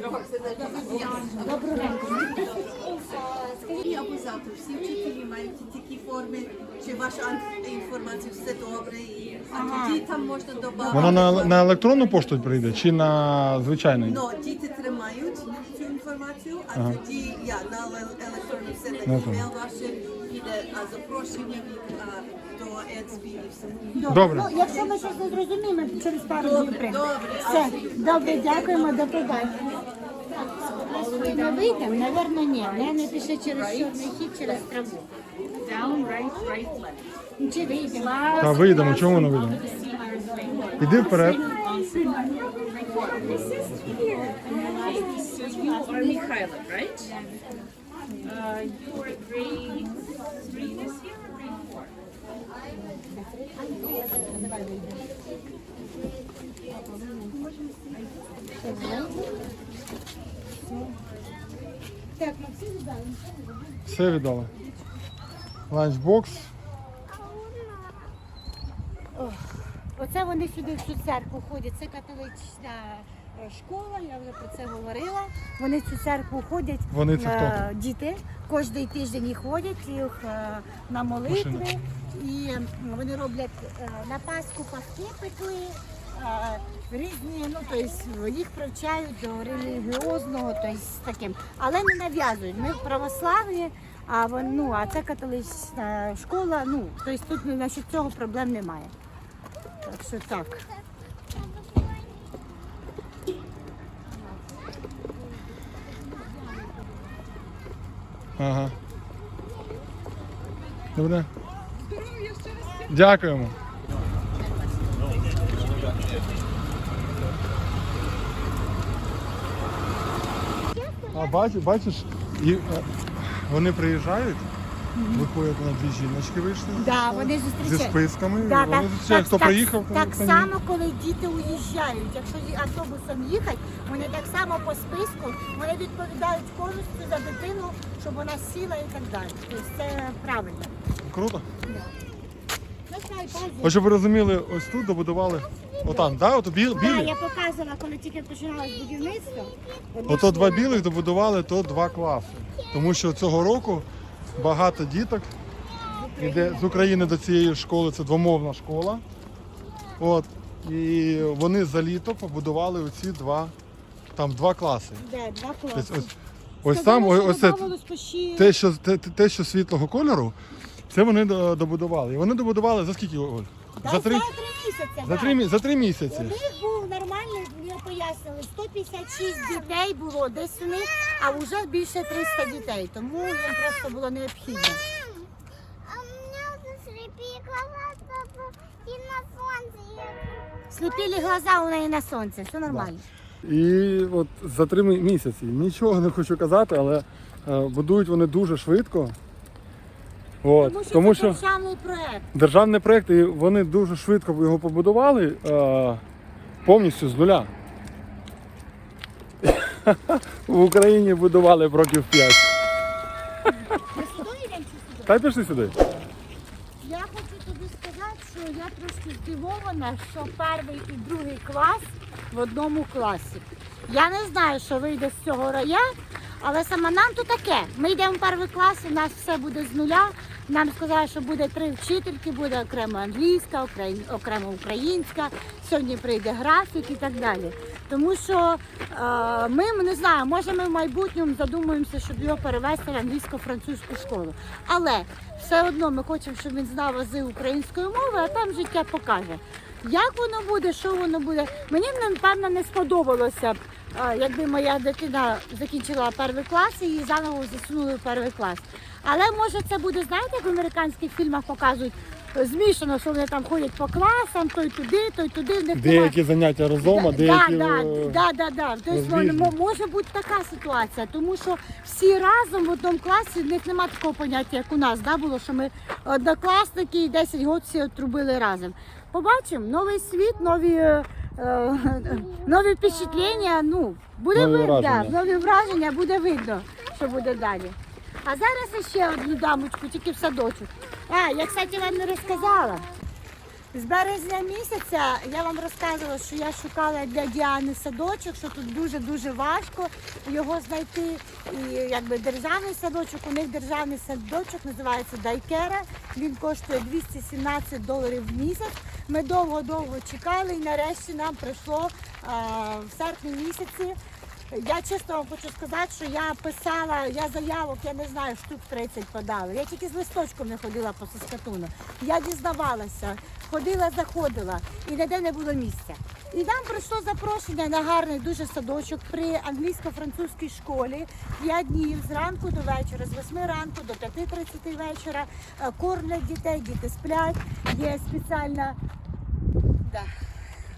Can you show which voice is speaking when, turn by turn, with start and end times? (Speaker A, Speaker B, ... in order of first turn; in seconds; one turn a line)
Speaker A: 0.4-2.4
Speaker B: 0.6-3.9
Speaker A: 3.8-11.5
Speaker B: 9.5-10.0
Speaker C: 10.9-14.2
Speaker A: 14.1-25.1
Speaker C: 16.7-17.0
Speaker C: 19.0-19.5
Speaker B: 23.9-35.1
Speaker C: 24.1-24.5
Speaker A: 26.4-29.6
Speaker D: 35.6-37.0
Speaker B: 37.4-38.4
Speaker D: 37.9-47.2
Speaker C: 38.4-39.6
Speaker B: 40.7-41.6
Speaker C: 40.8-41.5
Speaker B: 44.4-46.1
Speaker D: 48.2-51.9
Speaker B: 53.0-55.1
Speaker B: 56.7-57.3
Speaker B: 58.6-59.2
Speaker B: 62.2-64.2
Speaker C: 63.9-64.5
Speaker C: 65.7-66.5
Speaker E: 67.1-68.1
Speaker B: 69.1-98.9
Speaker C: 76.9-77.6
Speaker C: 81.3-81.7
Speaker B: 99.8-100.7
Speaker E: 101.3-102.1
Speaker B: 104.1-107.4
Speaker C: 108.4-108.8
Speaker C: 111.0-111.3
Speaker C: 112.9-113.6
Speaker B: 120.7-121.3
Speaker C: 121.1-124.5
Speaker B: 124.9-125.3
Speaker C: 125.1-130.5
Speaker B: 126.8-140.7
Speaker C: 141.0-141.4
Speaker B: 141.7-141.9
Speaker B: 142.9-143.7
Speaker C: 143.6-147.1
Speaker B: 146.8-150.9
Speaker C: 150.1-155.3
Speaker B: 155.9-157.2
Speaker C: 156.2-159.0
Speaker C: 160.0-163.5
Speaker C: 164.1-165.0
Speaker B: 165.0-166.1
Speaker C: 165.7-166.1
Speaker C: 166.6-167.7
Speaker B: 166.7-168.5
Speaker C: 168.3-170.3
Speaker C: 170.9-174.2
Speaker B: 173.8-175.4
Speaker C: 175.0-176.3
Speaker B: 176.1-184.8
Speaker E: 185.8-190.5
Speaker B: 190.7-193.0
Speaker C: 193.4-199.2
Speaker C: 200.4-201.4
Speaker B: 200.6-202.2
Speaker C: 202.3-206.0
Speaker C: 206.6-207.5
Speaker C: 209.4-212.5
Speaker B: 213.7-215.2
Speaker C: 215.1-215.7
Speaker B: 216.8-266.1
Speaker C: 265.7-268.2
Speaker B: 266.8-292.9
Speaker C: 268.9-269.5
Speaker C: 284.3-285.2
Speaker B: 293.7-314.0
Speaker B: 314.5-338.8
Speaker B: 339.8-340.1